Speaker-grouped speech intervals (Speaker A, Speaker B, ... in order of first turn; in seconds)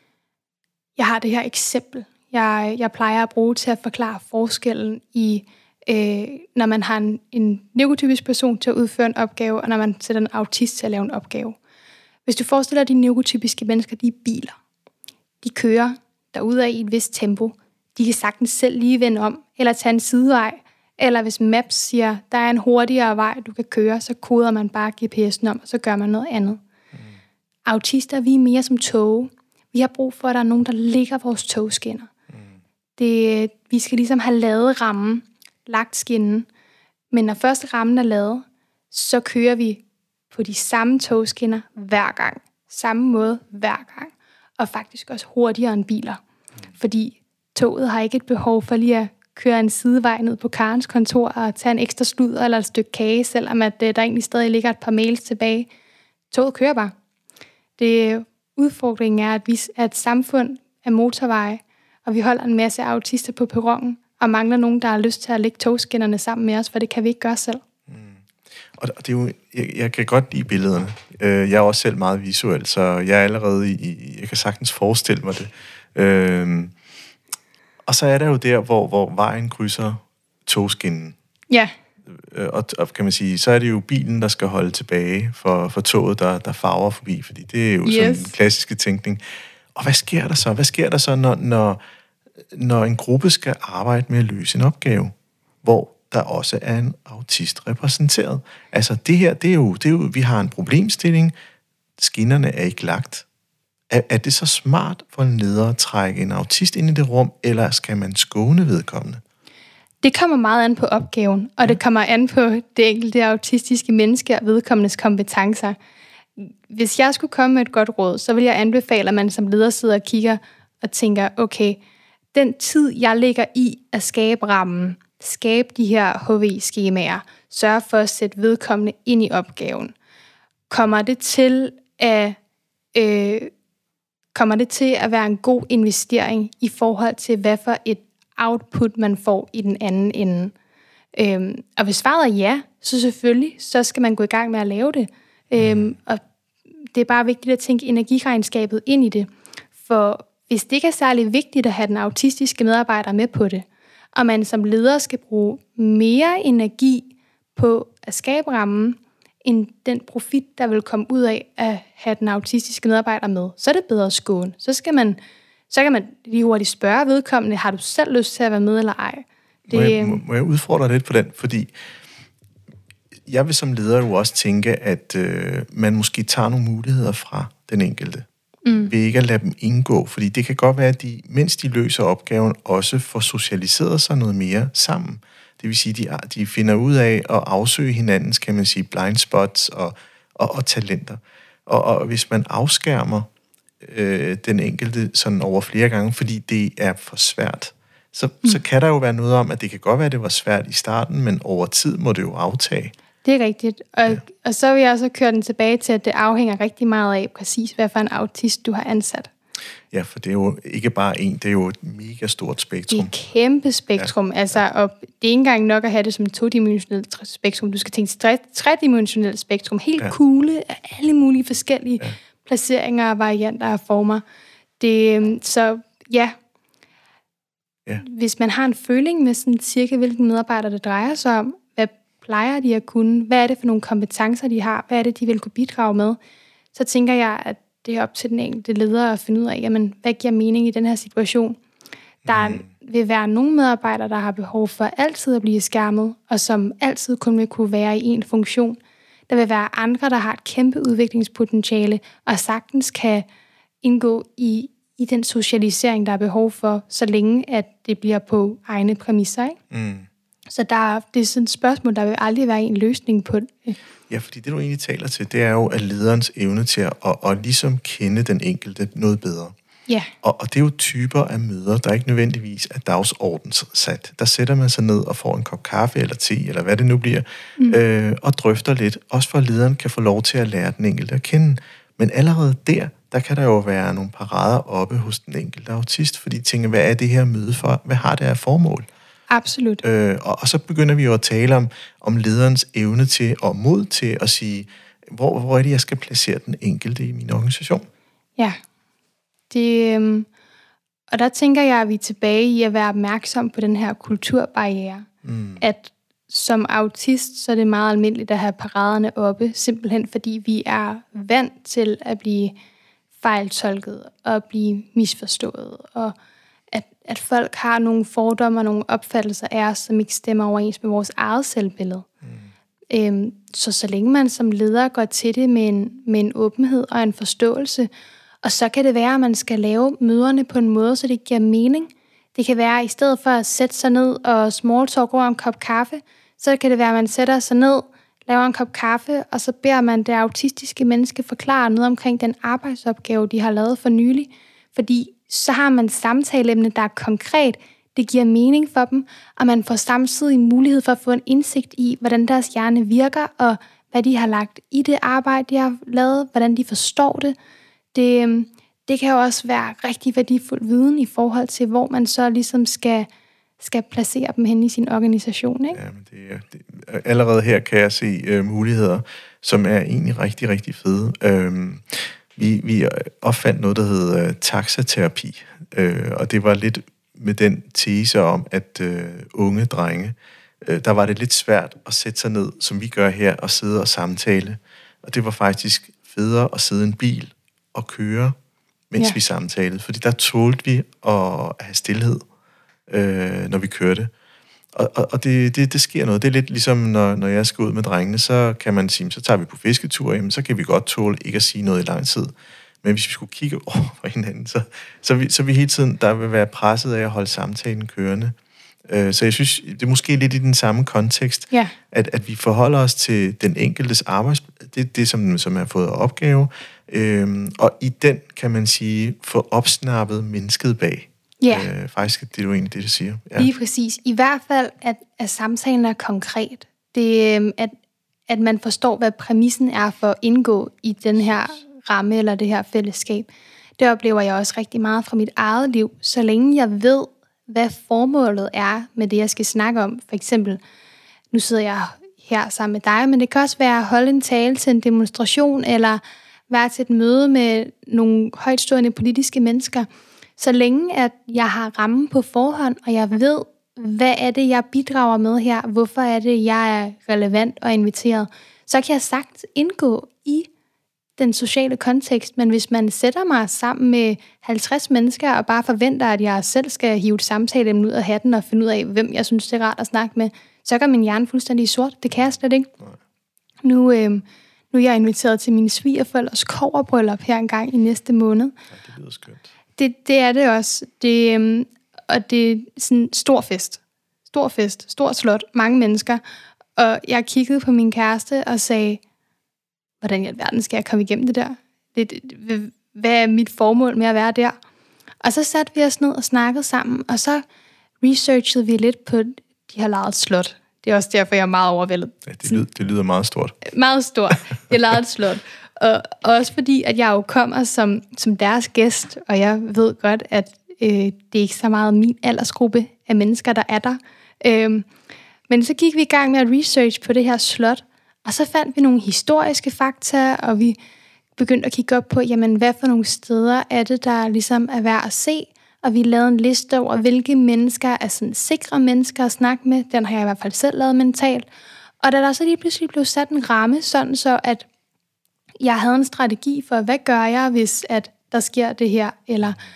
Speaker A: 1.0-11.6, 12.3-14.6, 15.4-26.6, 27.6-32.1, 33.0-36.5, 37.1-46.2, 46.8-55.7, 56.3-56.9, 57.8-67.6, 87.8-88.3, 110.0-115.8, 116.4-121.8, 122.3-129.9, 130.7-132.4, 132.9-133.5, 134.3-140.5, 141.1-146.2, 146.9-149.3, 149.8-165.2, 165.7-170.2, 178.6-178.9, 203.2-209.3, 212.9-224.2, 224.8-226.3, 228.0-236.2, 236.7-241.6, 242.3-253.3, 253.8-259.6, 260.5-263.8, 289.3-289.8, 299.5-300.3, 301.1-305.1, 305.6-312.5, 313.2-316.1, 316.7-322.1, 322.9-327.9, 328.4-357.4, 357.9-363.1, 363.6-365.8, 421.4-421.7, 423.4-427.7, 428.3-440.6, 441.3-460.5, 461.2-472.7, 473.6-478.5, 479.8-486.2, 486.8-489.0, 490.0-494.5, 495.2-497.4, 498.0-502.6, 503.6-514.9, 515.5-520.8, 521.4-531.5, 532.0-534.6, 535.6-539.6
Speaker B: 67.9-76.7, 77.9-81.2, 82.1-89.2, 89.7-91.8, 92.5-101.3, 102.0-103.2, 103.9-109.2, 145.6-145.9, 169.7-171.7, 173.3-193.3, 193.8-202.9, 209.9-213.1, 242.2-242.7, 259.7-260.1, 264.1-269.5, 270.2-288.9, 289.8-297.9, 305.2-305.6, 365.7-388.4, 388.9-392.2, 392.9-394.1, 394.7-408.3, 408.9-423.5, 478.7-479.5, 502.2-503.6